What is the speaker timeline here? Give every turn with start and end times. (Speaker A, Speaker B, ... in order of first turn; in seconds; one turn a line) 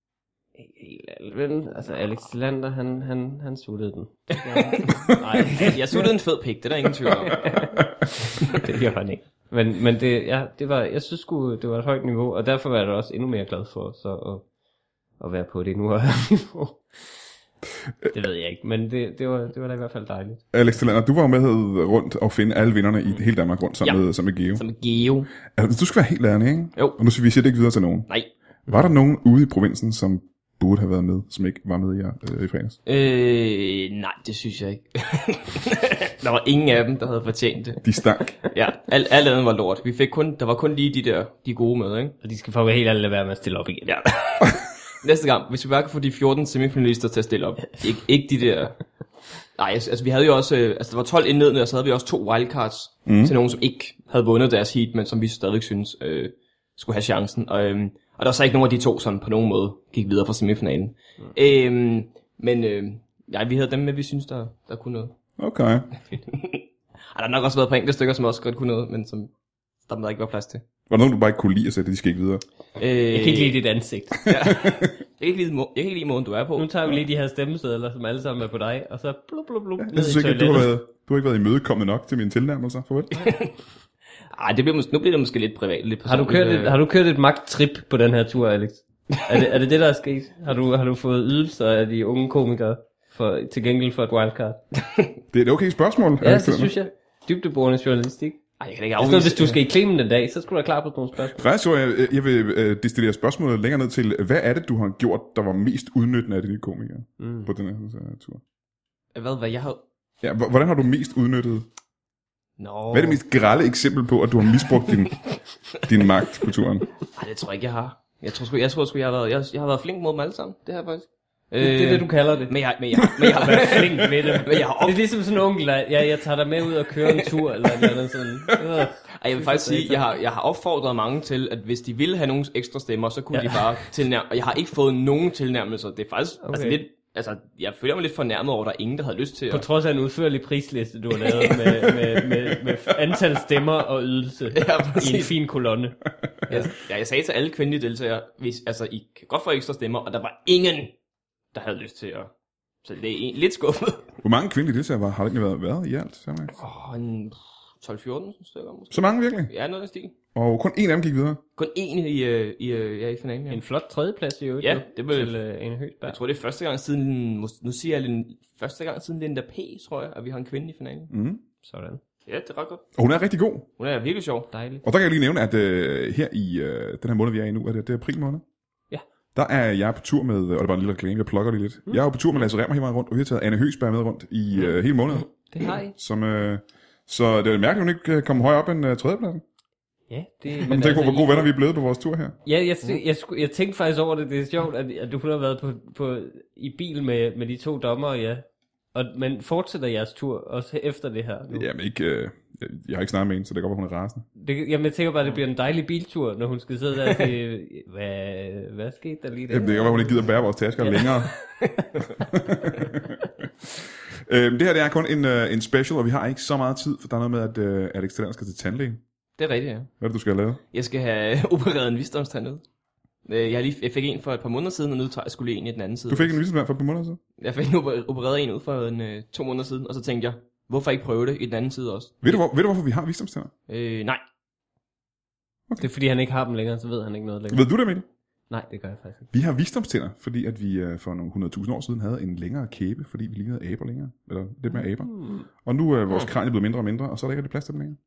Speaker A: 0.6-6.1
Speaker B: 4.5-5.0
Speaker B: 5.6-7.7
Speaker A: 7.2-14.4
Speaker A: 15.2-17.1
Speaker A: 18.1-20.4
Speaker C: 20.5-24.6
Speaker B: 24.6-25.3
Speaker C: 25.5-28.1
Speaker C: 28.7-32.8
Speaker B: 32.9-37.8
Speaker C: 37.8-38.4
Speaker B: 38.4-42.1
Speaker A: 42.2-44.0
Speaker B: 43.9-48.8
Speaker B: 49.6-65.2
Speaker C: 53.1-53.3
Speaker C: 65.4-65.9
Speaker B: 66.1-69.3
Speaker B: 69.9-70.6
Speaker C: 70.9-72.4
Speaker B: 72.8-73.6
Speaker A: 73.1-74.3
Speaker B: 74.2-76.7
Speaker C: 74.4-74.9
Speaker A: 76.6-80.7
Speaker C: 79.8-83.2
Speaker B: 83.1-83.5
Speaker B: 84.3-86.8
Speaker A: 86.0-94.6
Speaker C: 95.3-96.7
Speaker A: 96.2-98.4
Speaker B: 98.6-99.6
Speaker A: 99.0-101.4
Speaker C: 101.3-108.4
Speaker A: 107.2-107.5
Speaker B: 109.2-109.8
Speaker C: 110.2-111.7
Speaker B: 112.6-113.2
Speaker C: 112.9-115.2
Speaker C: 115.8-116.9
Speaker B: 117.1-125.0
Speaker A: 121.6-122.5
Speaker A: 123.2-130.0
Speaker B: 127.0-127.9
Speaker B: 129.2-139.7
Speaker A: 133.3-133.7
Speaker A: 136.5-136.8
Speaker A: 139.5-146.7
Speaker B: 141.1-142.6
Speaker B: 144.5-145.3
Speaker B: 146.5-150.9
Speaker B: 151.5-152.3
Speaker B: 152.8-154.1
Speaker C: 154.2-156.6
Speaker B: 156.6-160.2
Speaker C: 158.9-159.5
Speaker C: 160.3-161.4
Speaker B: 161.6-163.6
Speaker A: 163.5-166.2
Speaker B: 164.6-165.3
Speaker B: 166.1-171.1
Speaker C: 171.1-171.4
Speaker A: 171.6-172.0
Speaker B: 172.3-172.8
Speaker C: 173.0-173.7
Speaker B: 173.8-174.5
Speaker A: 174.5-174.8
Speaker C: 174.8-178.4
Speaker C: 179.3-189.4
Speaker A: 185.5-185.9
Speaker A: 190.1-191.5
Speaker C: 190.6-192.4
Speaker A: 192.4-201.7
Speaker C: 201.5-204.3
Speaker A: 204.4-210.3
Speaker C: 209.5-211.3
Speaker B: 211.4-211.9
Speaker C: 212.2-213.3
Speaker C: 214.3-219.0
Speaker B: 219.4-219.9
Speaker C: 220.0-220.6
Speaker B: 220.7-222.6
Speaker B: 223.3-226.4
Speaker C: 226.1-227.2
Speaker B: 227.4-232.4
Speaker C: 232.2-233.5
Speaker B: 233.7-234.2
Speaker A: 235.8-237.7
Speaker C: 237.5-238.1
Speaker A: 238.5-239.3
Speaker C: 239.3-248.0
Speaker A: 244.7-245.5